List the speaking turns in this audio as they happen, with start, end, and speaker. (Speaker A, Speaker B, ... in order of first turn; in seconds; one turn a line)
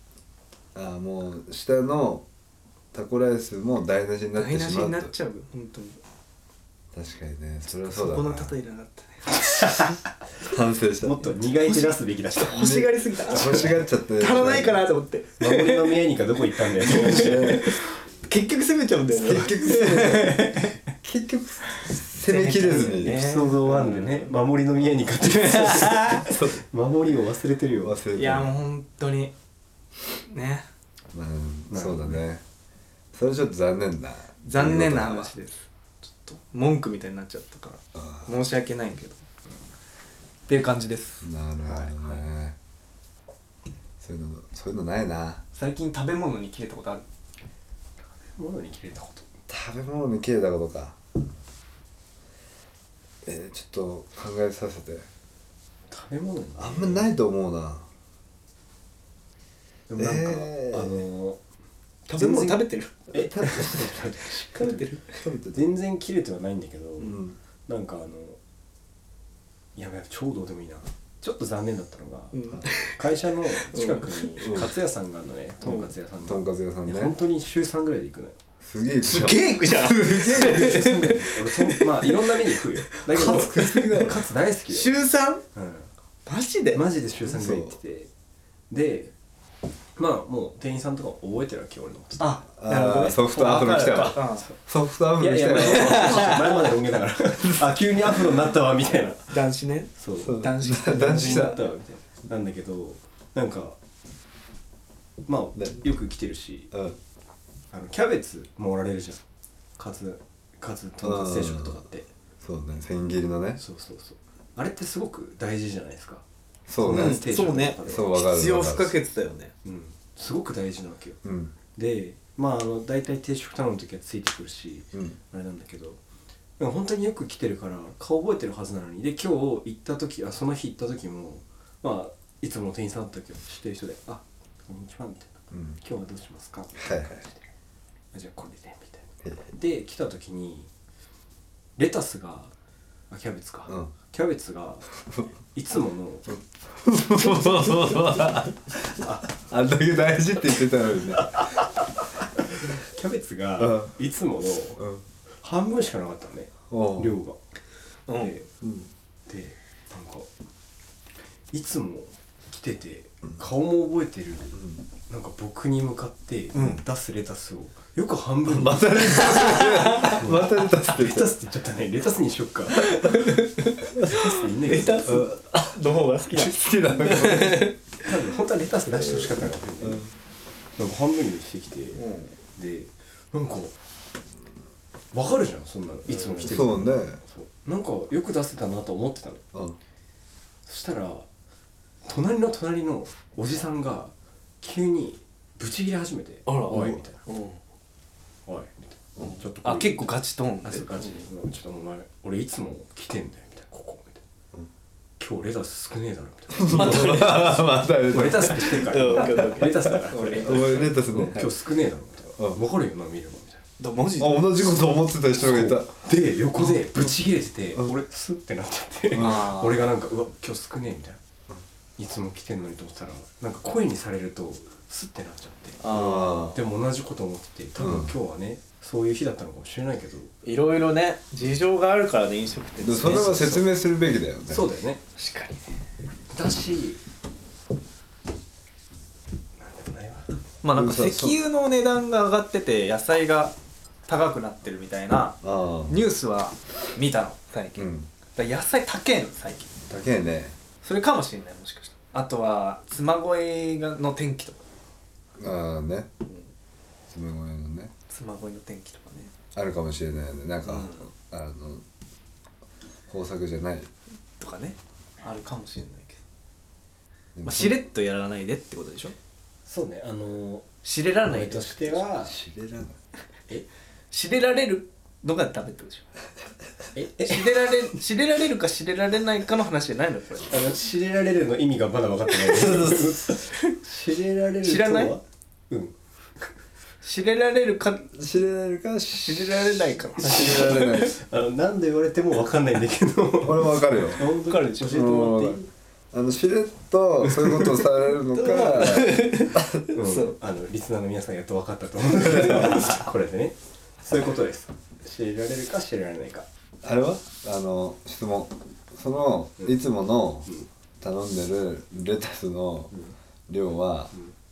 Speaker A: 0.8-2.3
Speaker A: 2.9-5.1
Speaker B: 4.3-6.0
Speaker A: 6.9-8.6
Speaker B: 7.7-9.9
Speaker C: 9.6-9.9
Speaker A: 10.5-11.2
Speaker C: 11.0-13.8
Speaker B: 11.7-16.0
Speaker A: 12.5-14.8
Speaker C: 15.4-17.7
Speaker B: 16.8-20.8
Speaker A: 17.0-17.7
Speaker A: 19.1-23.3
Speaker B: 22.2-24.3
Speaker C: 23.0-27.9
Speaker B: 25.2-26.3
Speaker A: 26.2-26.6
Speaker A: 27.8-28.5
Speaker B: 28.1-29.3
Speaker B: 30.2-30.7
Speaker A: 31.1-32.4
Speaker C: 31.7-32.2
Speaker A: 33.1-35.3
Speaker B: 34.4-39.2
Speaker A: 38.0-38.3
Speaker B: 40.5-41.3
Speaker A: 41.2-42.6
Speaker C: 41.6-41.9
Speaker A: 44.0-45.4
Speaker B: 45.5-47.1
Speaker C: 48.2-49.3
Speaker A: 49.5-51.0
Speaker A: 53.2-55.1
Speaker C: 55.9-57.1
Speaker A: 56.6-57.9
Speaker C: 59.9-61.4
Speaker A: 60.0-61.0
Speaker B: 62.1-65.2
Speaker C: 62.1-64.9
Speaker A: 63.1-65.7
Speaker C: 65.5-68.4
Speaker A: 67.0-67.4
Speaker C: 69.8-78.4
Speaker B: 72.3-73.0
Speaker B: 73.7-74.4
Speaker A: 74.4-74.7
Speaker B: 75.6-75.9
Speaker A: 76.2-77.1
Speaker A: 78.6-81.1
Speaker B: 79.0-82.3
Speaker C: 80.3-85.0
Speaker B: 83.0-83.9
Speaker A: 83.1-84.2
Speaker B: 84.7-85.4
Speaker C: 85.5-85.9
Speaker B: 86.3-86.8
Speaker C: 86.7-88.1
Speaker A: 87.3-87.8
Speaker C: 88.7-89.1
Speaker C: 90.0-92.4
Speaker B: 92.2-94.5
Speaker A: 92.6-96.5
Speaker C: 93.7-94.6
Speaker C: 95.2-99.3
Speaker B: 95.6-96.7
Speaker B: 99.3-101.7
Speaker C: 100.0-103.8
Speaker A: 100.2-101.6
Speaker C: 105.3-106.7
Speaker A: 106.7-107.0
Speaker C: 107.7-109.2
Speaker C: 109.8-112.1
Speaker A: 111.0-111.8
Speaker A: 112.4-113.6
Speaker C: 113.6-116.2
Speaker A: 116.7-117.2
Speaker C: 116.8-118.1
Speaker B: 116.8-119.5
Speaker A: 117.9-119.0
Speaker C: 119.6-121.2
Speaker A: 121.2-121.5
Speaker C: 121.8-126.0
Speaker C: 126.6-137.4
Speaker A: 135.5-135.8
Speaker A: 136.8-137.2
Speaker C: 138.1-140.7
Speaker C: 141.8-142.5
Speaker C: 143.1-145.0
Speaker C: 145.5-146.3
Speaker A: 146.3-151.6
Speaker C: 152.5-154.8
Speaker A: 153.6-153.9
Speaker A: 154.8-155.0
Speaker C: 155.4-157.4
Speaker A: 156.7-157.2
Speaker B: 158.1-158.4
Speaker C: 158.2-158.5
Speaker A: 158.6-158.9
Speaker C: 159.3-160.3
Speaker C: 161.5-172.9
Speaker B: 166.5-166.8
Speaker A: 168.5-171.3
Speaker B: 169.3-170.2
Speaker B: 172.9-177.8
Speaker C: 174.1-175.2
Speaker A: 175.0-177.8
Speaker C: 178.0-180.1
Speaker C: 180.8-182.0
Speaker B: 181.9-182.3
Speaker C: 182.6-183.8
Speaker C: 185.1-189.4
Speaker B: 186.1-186.5
Speaker A: 186.4-187.2
Speaker C: 190.7-191.3
Speaker C: 192.0-197.2
Speaker B: 196.5-197.6
Speaker C: 198.5-204.2
Speaker B: 199.2-201.2
Speaker C: 205.2-213.7
Speaker A: 206.5-209.4
Speaker B: 206.7-207.6
Speaker B: 208.6-210.8
Speaker A: 210.4-211.5
Speaker B: 213.8-214.8
Speaker A: 214.2-216.0
Speaker C: 215.4-221.2
Speaker A: 219.1-219.5
Speaker B: 219.2-219.8
Speaker C: 222.0-225.8
Speaker B: 225.8-226.6
Speaker A: 225.9-226.6
Speaker C: 226.5-230.3
Speaker A: 227.8-228.1
Speaker B: 230.4-233.7
Speaker A: 232.8-234.7
Speaker C: 234.5-235.0
Speaker B: 235.2-235.8
Speaker C: 236.3-237.0
Speaker C: 239.6-240.3
Speaker B: 240.6-243.6
Speaker A: 240.7-241.4
Speaker B: 244.1-249.7
Speaker A: 245.4-246.0
Speaker A: 247.8-248.1
Speaker A: 249.9-250.6
Speaker B: 250.8-254.6
Speaker A: 255.4-256.1
Speaker A: 257.1-257.9
Speaker B: 258.1-259.3
Speaker A: 259.5-261.9
Speaker B: 260.7-261.1
Speaker A: 263.1-263.9
Speaker B: 264.4-266.2
Speaker A: 267.4-267.8
Speaker B: 267.4-269.1
Speaker C: 269.7-270.7
Speaker B: 270.8-272.0
Speaker C: 271.3-272.4
Speaker A: 272.2-273.0
Speaker B: 274.1-276.1
Speaker C: 276.9-277.8
Speaker B: 277.2-280.5
Speaker C: 280.5-286.5
Speaker A: 282.5-283.2
Speaker B: 284.6-285.1
Speaker B: 287.0-288.1
Speaker A: 288.1-291.2
Speaker B: 289.2-291.1
Speaker C: 290.2-295.7
Speaker A: 293.4-294.2
Speaker B: 294.5-294.9
Speaker A: 294.8-295.6
Speaker A: 296.1-299.9
Speaker C: 297.3-297.6
Speaker B: 298.3-300.4
Speaker C: 299.9-306.5
Speaker A: 302.2-303.0
Speaker A: 306.8-312.9
Speaker A: 313.5-314.1